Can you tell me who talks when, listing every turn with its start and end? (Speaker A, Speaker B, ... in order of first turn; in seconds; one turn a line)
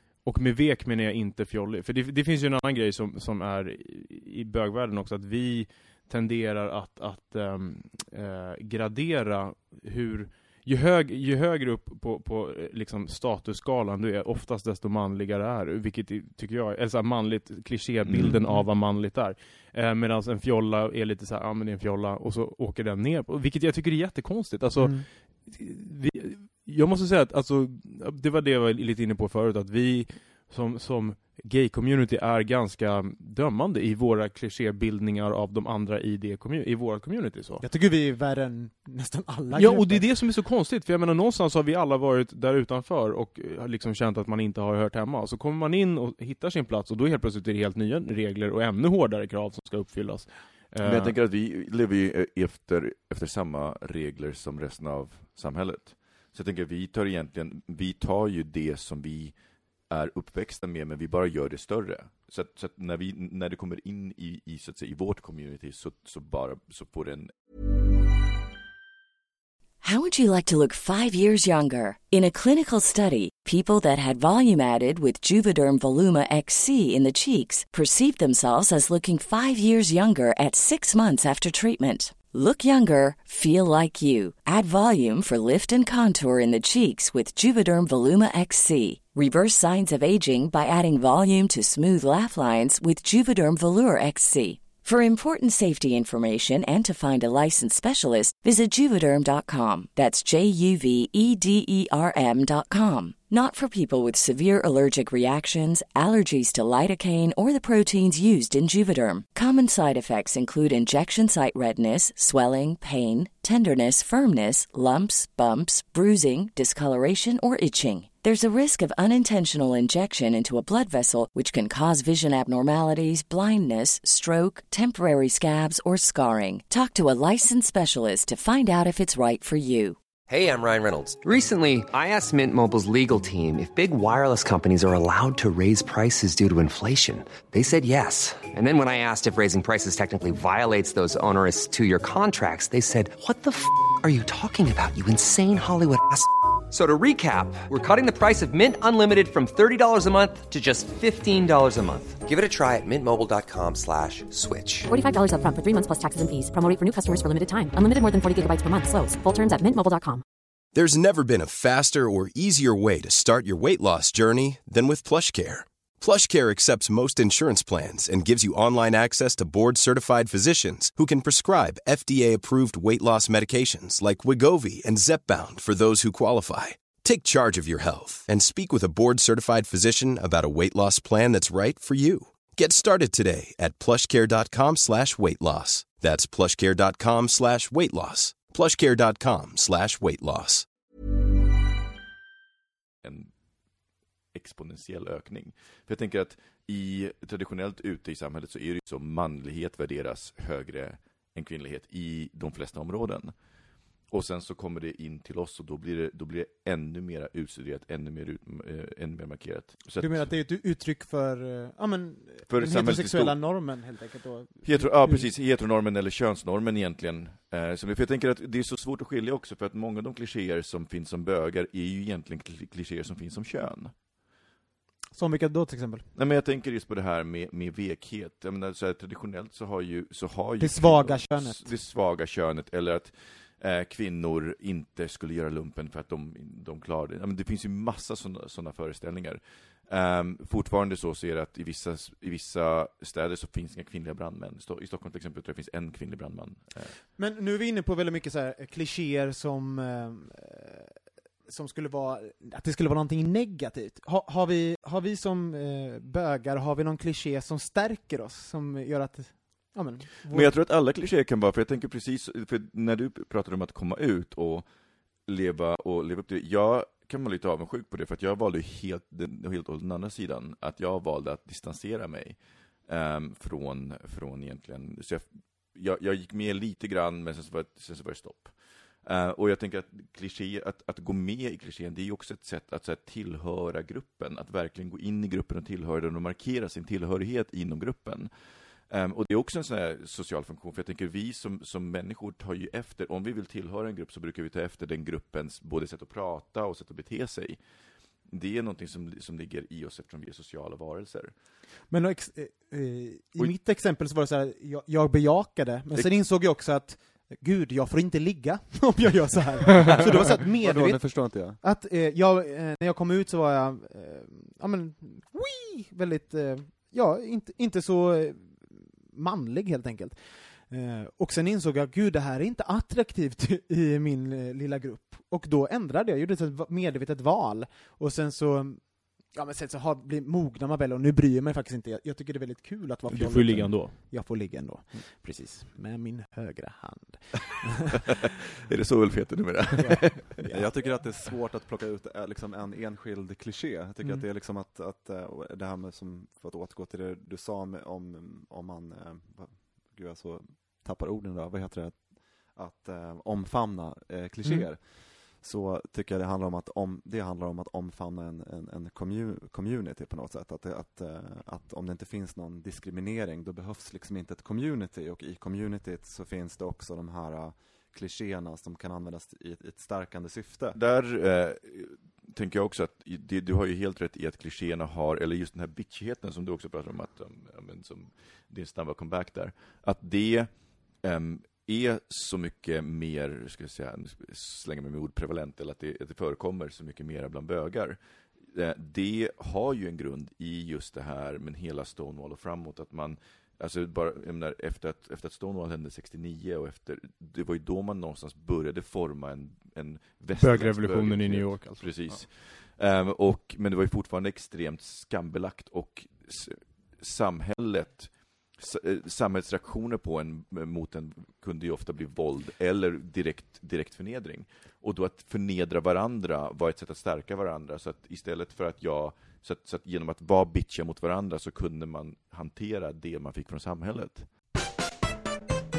Speaker A: 0.2-37.6
Speaker B: 18.0-18.4
Speaker C: 24.8-25.0
Speaker C: 37.6-40.1
Speaker A: 39.5-51.1
Speaker B: 50.8-59.4
Speaker B: 59.9-67.3
Speaker D: 69.8-130.0
Speaker E: 130.3-154.9
Speaker F: 154.9-160.2
Speaker G: 160.7-190.7
Speaker B: 193.0-193.3
Speaker B: 194.3-203.3
Speaker B: 204.1-210.3
Speaker C: 210.0-215.3
Speaker B: 212.5-213.7
Speaker B: 214.6-223.9
Speaker C: 225.1-226.1
Speaker B: 226.1-247.0
Speaker C: 230.6-231.7
Speaker C: 247.2-250.9
Speaker C: 251.5-260.6
Speaker B: 260.3-264.7
Speaker B: 265.3-288.3
Speaker B: 288.9-297.6
Speaker B: 298.3-301.3
Speaker C: 301.9-338.0
Speaker H: 310.6-311.6
Speaker A: 333.1-333.9
Speaker B: 338.7-340.4
Speaker C: 339.8-340.7
Speaker H: 340.5-370.8
Speaker B: 370.8-388.0
Speaker B: 388.5-424.3
Speaker A: 400.4-402.3